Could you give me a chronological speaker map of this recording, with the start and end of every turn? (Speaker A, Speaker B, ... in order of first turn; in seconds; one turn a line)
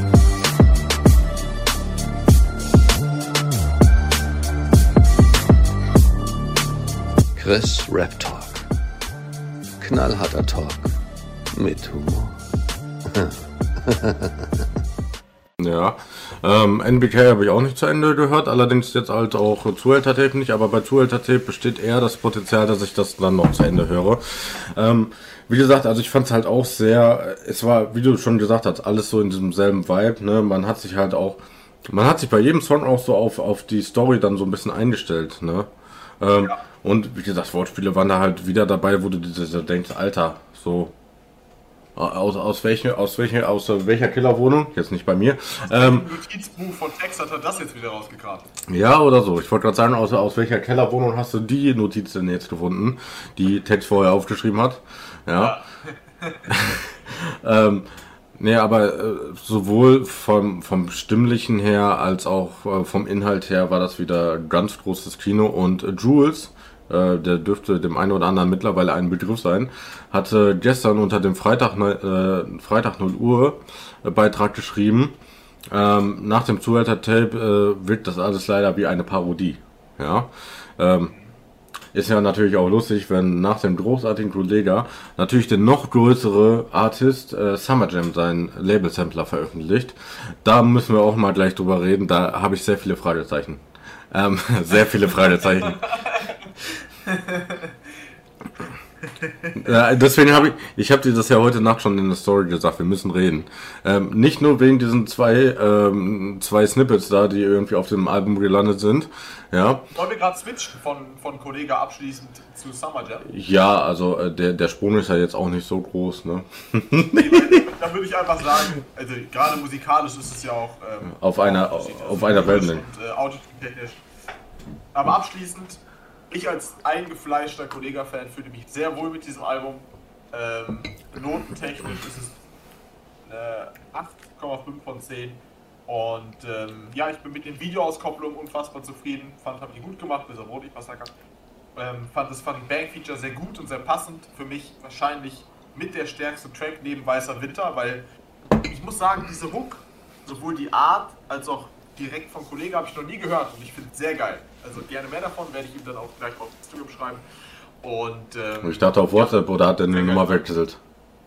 Speaker A: 7.3-8.7
Speaker A: 9.8-11.0
Speaker A: 11.5-12.4
Speaker A: 13.1-14.7
Speaker B: 15.6-40.9
Speaker B: 42.0-46.1
Speaker C: 45.6-48.5
Speaker B: 48.7-55.6
Speaker C: 55.4-56.5
Speaker B: 56.5-75.2
Speaker B: 75.7-81.1
Speaker B: 81.9-96.0
Speaker C: 95.9-96.4
Speaker C: 97.0-97.7
Speaker C: 99.2-100.6
Speaker B: 99.5-109.9
Speaker C: 109.9-113.3
Speaker B: 113.3-117.6
Speaker C: 117.1-124.0
Speaker B: 121.1-122.8
Speaker C: 124.9-132.4
Speaker C: 133.2-141.1
Speaker C: 141.8-148.0
Speaker C: 148.6-157.2
Speaker C: 157.8-160.4
Speaker B: 158.6-160.8